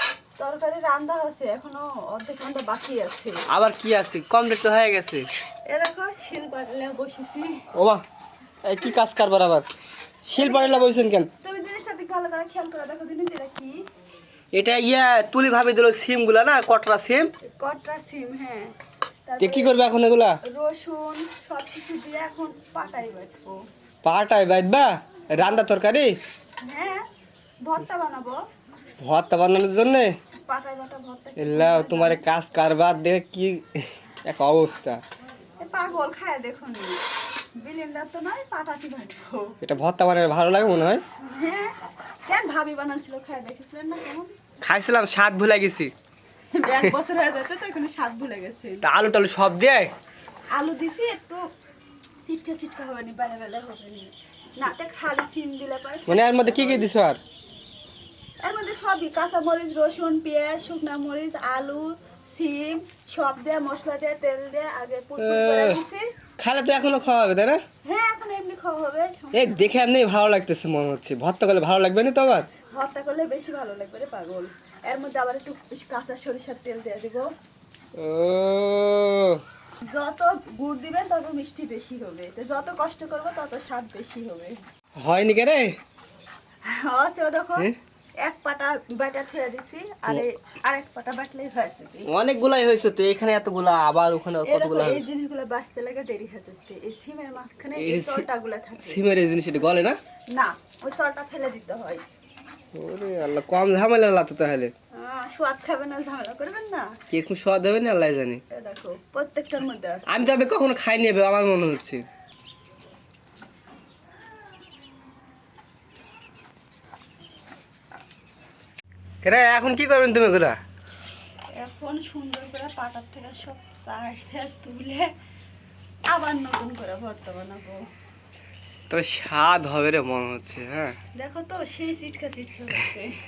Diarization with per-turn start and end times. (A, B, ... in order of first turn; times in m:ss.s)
0:00.4-0:03.4 A
0:03.5-0:05.2 B
0:05.7-0:07.6 A
0:07.7-0:08.0 B
0:08.6-0:09.6 B
0:10.2-0:11.3 B
0:10.3-0:13.8 A
0:14.5-0:17.3 B
0:17.4-0:18.7 A
0:19.2-0:19.9 A
0:19.4-0:20.4 B
0:20.4-0:23.6 A
0:24.0-0:26.1 B
0:26.6-0:27.0 A
0:27.6-0:28.4 A
0:29.0-0:30.1 B
0:30.4-0:32.2 A
0:31.4-0:35.0 B
0:35.6-0:37.0 A
0:37.6-0:39.6 A
0:39.6-0:41.0 B
0:41.2-0:41.7 A
0:42.2-0:44.3 A
0:44.6-0:45.9 B
0:46.5-0:48.8 A
0:48.8-0:49.9 B
0:50.5-0:51.4 A
0:52.2-0:56.9 A
0:56.1-0:57.2 B
0:58.4-1:06.1 A
1:05.2-1:05.8 B
1:06.4-1:07.6 B
1:07.8-1:09.7 A
1:09.3-1:12.5 B
1:12.7-1:17.2 A
1:18.0-1:19.4 B
1:19.8-1:24.6 A
1:25.0-1:25.7 B
1:26.6-1:27.7 A
1:28.2-1:32.1 A
1:32.1-1:35.0 B
1:34.4-1:39.0 A
1:37.8-1:38.2 B
1:38.8-1:40.0 B
1:40.3-1:42.0 A
1:42.7-1:44.7 B
1:44.9-1:47.0 A
1:47.1-1:48.4 B
1:48.5-1:50.1 A
1:50.1-1:52.0 B
1:59.2-2:00.6 B
2:01.5-2:05.1 A
2:06.1-2:07.8 A
2:08.9-2:11.0 B
2:11.1-2:13.2 A